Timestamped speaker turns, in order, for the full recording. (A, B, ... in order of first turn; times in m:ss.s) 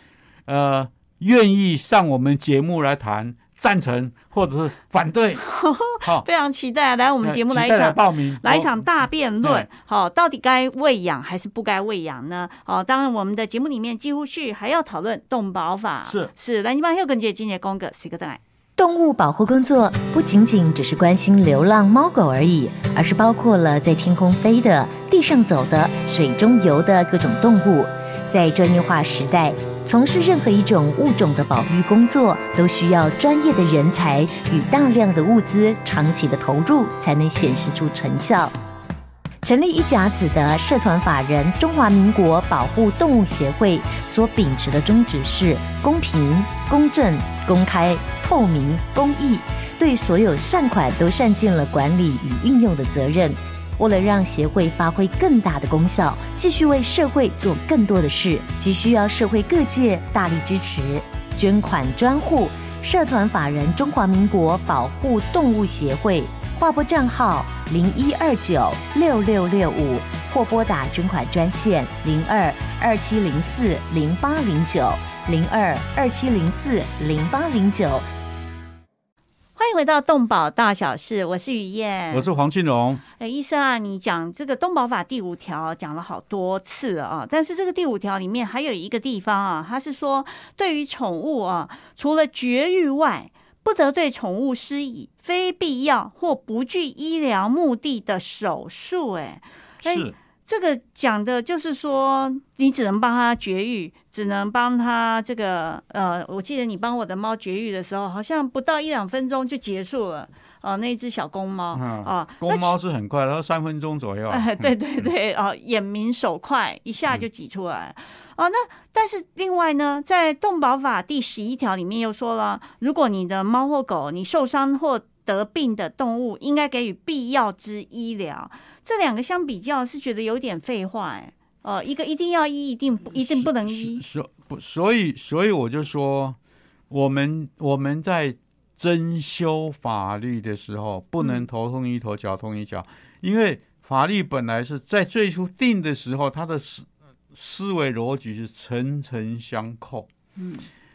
0:00.5-0:05.4 A
0:05.4-0:18.4 B
0:06.0-0:06.2 A
0:07.2-0:08.8 A
0:09.4-0:09.7 A
0:16.0-0:16.3 A
0:18.8-0:38.5 C
0:39.4-1:18.0 C
1:19.6-1:22.3 B
1:22.1-1:23.0 A
1:23.2-1:52.8 B
1:39.8-1:40.1 A
1:51.7-1:54.7 A
1:54.3-2:14.0 B
2:13.1-2:16.4 A
2:16.9-2:30.1 A
2:21.2-2:21.4 B
2:30.4-2:30.7 B